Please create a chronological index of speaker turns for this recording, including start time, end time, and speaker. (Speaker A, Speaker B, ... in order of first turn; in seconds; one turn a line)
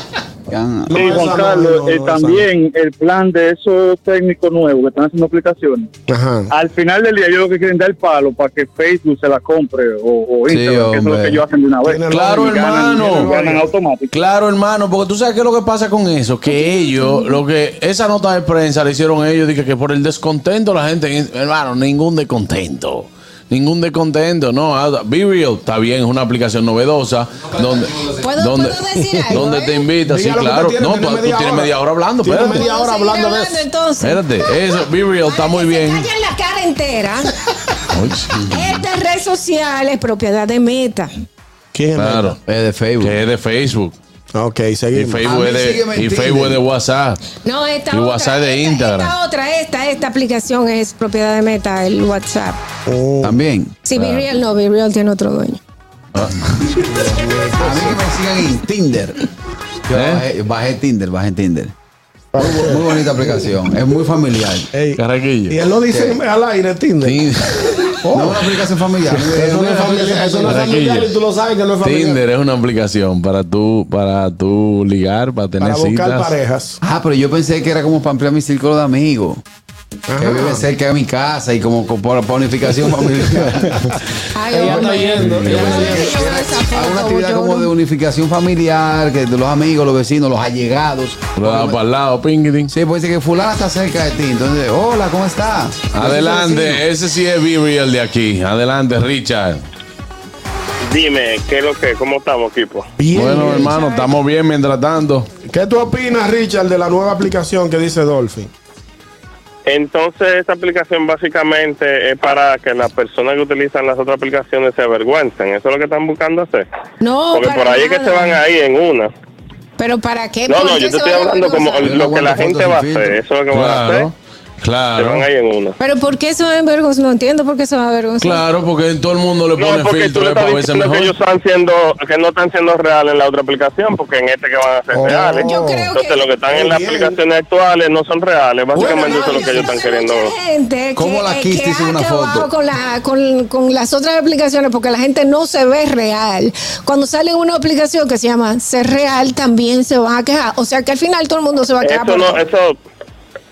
Speaker A: 0.5-1.0
Speaker B: 0.9-2.5
Speaker C: 0.9-5.9
Speaker B: 6.1-6.5
Speaker C: 6.5-14.1
Speaker A: 10.5-11.4
Speaker B: 11.8-13.7
Speaker D: 12.1-13.4
Speaker D: 14.1-32.7
Speaker E: 16.5-17.4
Speaker E: 28.2-29.8
Speaker B: 30.1-33.6
Speaker E: 32.4-34.2
Speaker D: 34.0-36.1
Speaker E: 35.3-37.3
Speaker D: 37.9-38.3
Speaker A: 38.3-38.8
Speaker E: 38.5-41.1
Speaker B: 41.7-42.4
Speaker D: 42.0-42.4
Speaker A: 42.5-43.2
Speaker D: 43.0-44.0
Speaker B: 44.3-45.2
Speaker D: 44.9-47.2
Speaker A: 45.2-46.6
Speaker E: 47.4-52.6
Speaker D: 47.9-49.1
Speaker B: 52.9-53.4
Speaker A: 53.2-53.8
Speaker E: 53.9-55.6
Speaker D: 54.0-54.3
Speaker D: 56.1-56.5
Speaker B: 56.9-58.0
Speaker A: 57.6-59.3
Speaker A: 59.9-61.7
Speaker D: 59.9-60.2
Speaker B: 62.3-63.0
Speaker A: 62.4-64.7
Speaker B: 64.7-67.2
Speaker D: 65.0-65.6
Speaker A: 65.9-66.2
Speaker D: 67.0-68.0
Speaker A: 68.0-70.7
Speaker B: 68.1-68.3
Speaker B: 69.2-72.2
Speaker D: 70.4-71.1
Speaker D: 71.8-76.3
Speaker B: 75.6-76.8
Speaker A: 76.8-79.4
Speaker B: 80.1-80.6
Speaker A: 80.2-83.9
Speaker E: 84.3-87.7
Speaker B: 84.5-86.1
Speaker A: 84.7-91.8
Speaker D: 85.2-85.8
Speaker D: 91.4-92.7
Speaker A: 92.7-95.9
Speaker D: 95.9-99.6
Speaker E: 96.1-96.7
Speaker F: 100.8-102.9
Speaker B: 103.0-103.8
Speaker D: 103.1-105.3
Speaker E: 103.5-104.1
Speaker B: 105.5-108.5
Speaker F: 109.7-116.7
Speaker E: 117.0-118.4
Speaker F: 117.3-119.1
Speaker E: 119.8-122.1
Speaker F: 120.5-124.1
Speaker A: 121.8-123.2
Speaker D: 123.5-125.2
Speaker F: 125.0-125.8
Speaker E: 125.8-128.4
Speaker D: 128.2-131.1
Speaker F: 129.6-140.3
Speaker B: 134.9-135.9
Speaker E: 135.3-136.3
Speaker B: 136.5-137.2
Speaker B: 138.8-139.8
Speaker E: 138.8-152.4
Speaker A: 141.0-142.5
Speaker F: 151.8-152.8